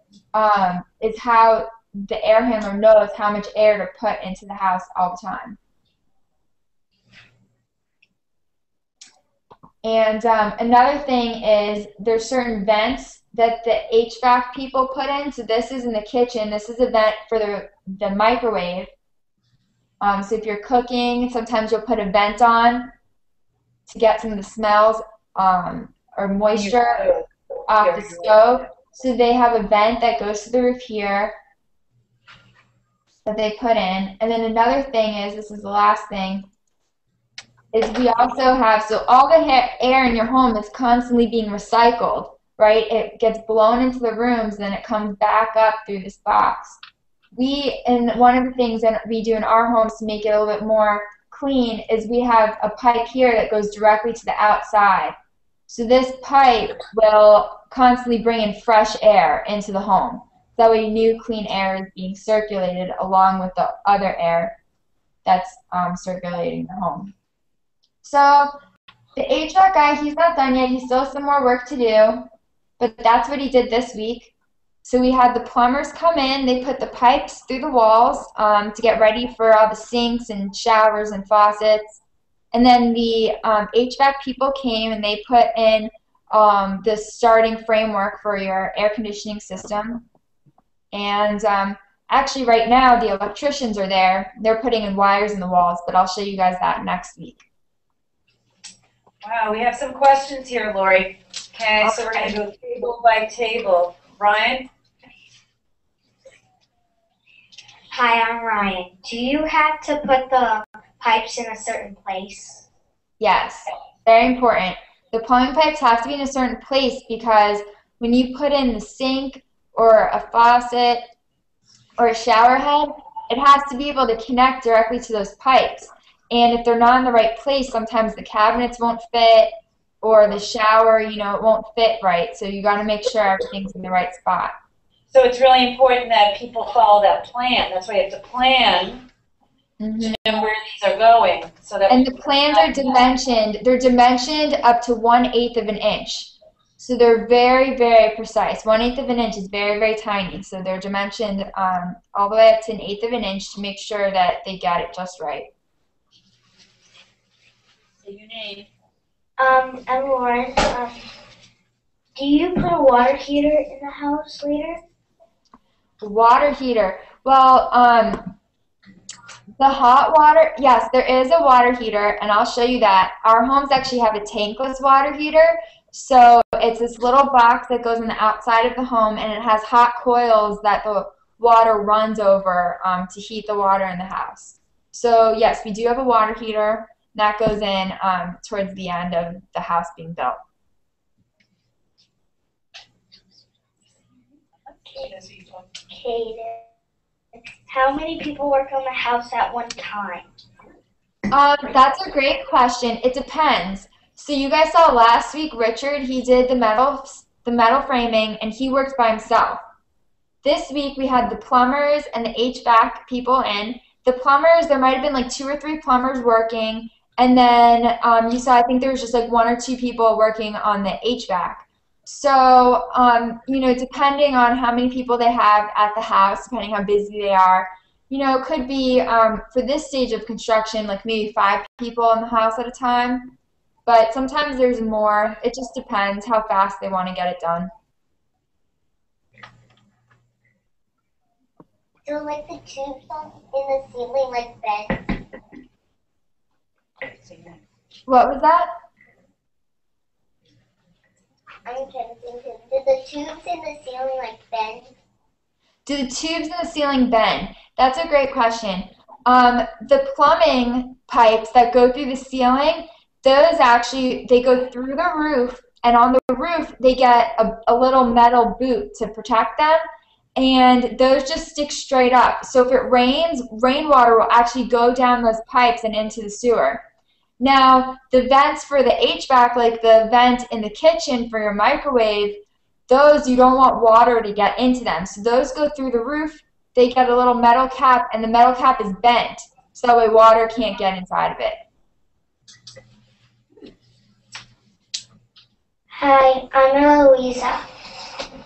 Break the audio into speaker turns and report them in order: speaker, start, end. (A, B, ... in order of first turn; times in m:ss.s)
0:00.3-0:05.6 A
0:09.8-0:18.9 A
0:20.0-0:22.9 A
0:23.9-0:27.1 A
0:26.5-0:27.3 B
0:27.7-0:31.4 A
0:27.8-0:28.6 B
0:33.2-0:36.5 A
0:37.7-0:46.8 A
0:47.4-0:55.2 A
0:55.7-1:04.6 A
1:05.2-1:07.1 A
1:08.0-1:08.5 A
1:09.2-1:12.3 A
1:12.8-1:14.3 A
1:14.8-1:22.0 A
1:22.5-1:30.0 A
1:30.9-1:37.4 A
1:39.2-1:44.7 B
1:41.8-1:42.4 A
1:47.9-1:52.6 C
1:53.2-2:01.0 A
2:02.0-2:09.5 A
2:10.0-2:14.5 A
2:15.1-2:19.0 B
2:19.8-2:20.2 A
2:20.0-2:23.0 B
2:21.9-2:35.5 A
2:38.0-2:38.7 B
2:39.4-2:41.1 C
2:42.2-2:44.8 C
2:46.0-2:48.3 A
2:49.6-3:10.4 A
3:14.7-3:15.8 B
3:14.9-3:15.1 C
3:15.9-3:16.7 C
3:17.3-3:20.3 C
3:21.3-3:29.6 A
3:30.4-3:53.4 A
3:53.9-3:57.7 A
4:02.0-4:05.1 C
4:07.1-4:07.6 B
4:08.1-4:08.7 A
4:11.7-4:14.9 C
4:15.9-4:29.8 A
4:30.4-4:36.8 A
4:37.4-4:51.6 A
4:55.9-4:57.6 C